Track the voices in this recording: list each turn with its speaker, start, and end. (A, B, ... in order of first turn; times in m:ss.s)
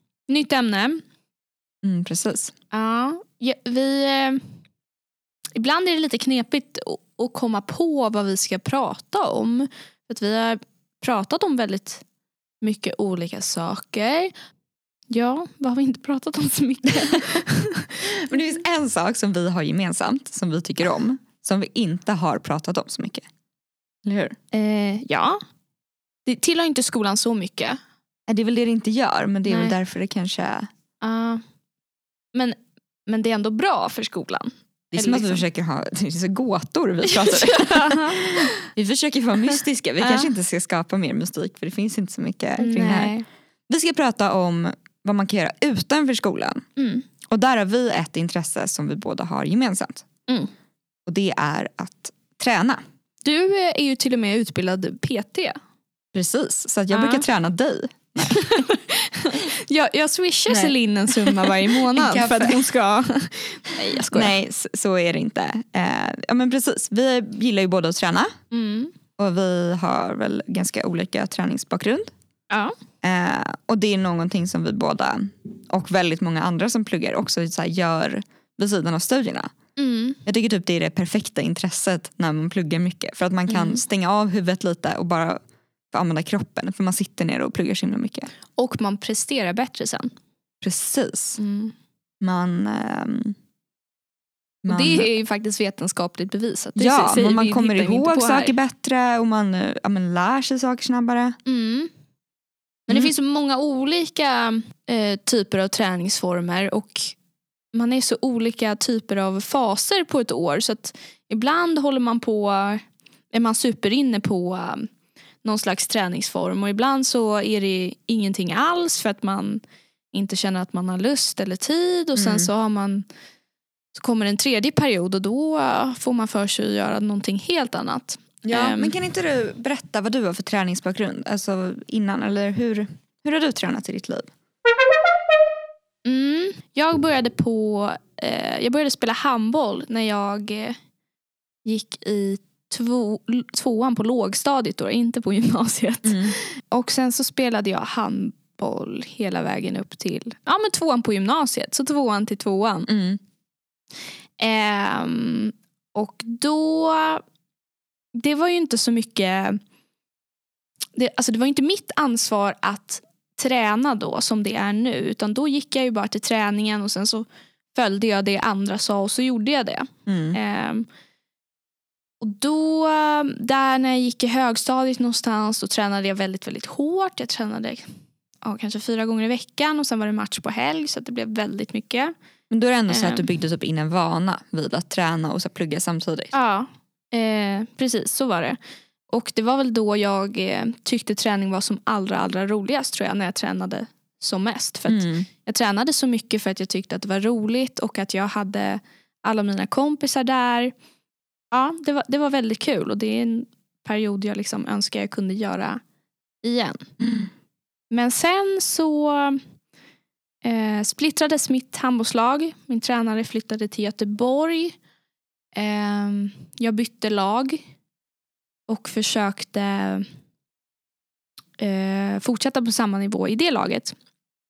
0:00.3-0:01.0 A
0:01.8-0:02.5 B
0:02.7-0:04.4 A
0:05.6-0:12.0 A
0:12.6-0:14.3 A
0:15.1-0:18.1 A
0:18.0-0:23.2 B
0:24.0-0:24.4 B
0:24.5-0:25.4 A
0:26.3-0:27.8 A
0:28.3-0:30.7 B
0:29.4-0:29.8 A
0:31.0-0:31.4 A
0:33.1-0:35.4 A
0:34.9-0:43.1 B
0:37.0-0:38.5 A
0:40.0-0:40.3 A
0:42.6-0:43.3 A
0:43.7-0:46.6 B
0:46.8-0:47.0 A
0:47.3-0:50.1 B
0:51.1-0:52.8 B
0:53.2-0:55.6 A
0:56.1-0:58.5 B
0:56.9-0:57.3 A
0:58.2-1:04.3 A
1:00.5-1:02.7 B
1:04.1-1:08.3 B
1:08.5-1:08.9 A
1:09.2-1:12.1 B
1:13.0-1:19.5 B
1:19.8-1:20.2 A
1:20.2-1:25.4 B
1:23.5-1:23.8 A
1:25.9-1:28.3 B
1:28.6-1:30.1 A
1:30.6-1:31.4 B
1:31.4-1:31.7 A
1:32.2-1:33.4 B
1:34.6-1:35.1 B
1:34.7-1:38.6 A
1:36.8-1:41.3 B
1:41.4-1:41.9 A
1:42.9-1:47.2 A
1:47.7-1:54.9 A
1:55.4-1:59.6 A
2:00.1-2:03.0 A
2:02.2-2:02.5 B
2:03.9-2:09.0 A
2:08.4-2:14.3 B
2:16.0-2:20.8 A
2:21.6-2:32.9 A
2:26.0-2:26.4 B
2:32.9-2:33.2 B
2:34.4-2:37.2 A
2:38.1-2:39.6 A
2:41.0-2:50.9 A
2:50.1-2:50.4 B
2:52.2-2:57.8 A
2:58.4-3:02.1 A
3:02.5-3:06.3 B
3:02.9-3:03.3 A
3:06.3-3:08.6 A
3:09.1-3:20.7 A
3:14.9-3:15.3 B
3:21.5-3:25.8 A
3:26.4-3:26.9 A
3:27.0-3:27.3 B
3:27.9-3:29.4 A
3:30.4-3:34.8 A
3:35.6-3:37.6 A
3:38.7-3:40.0 A
3:41.6-3:44.0 A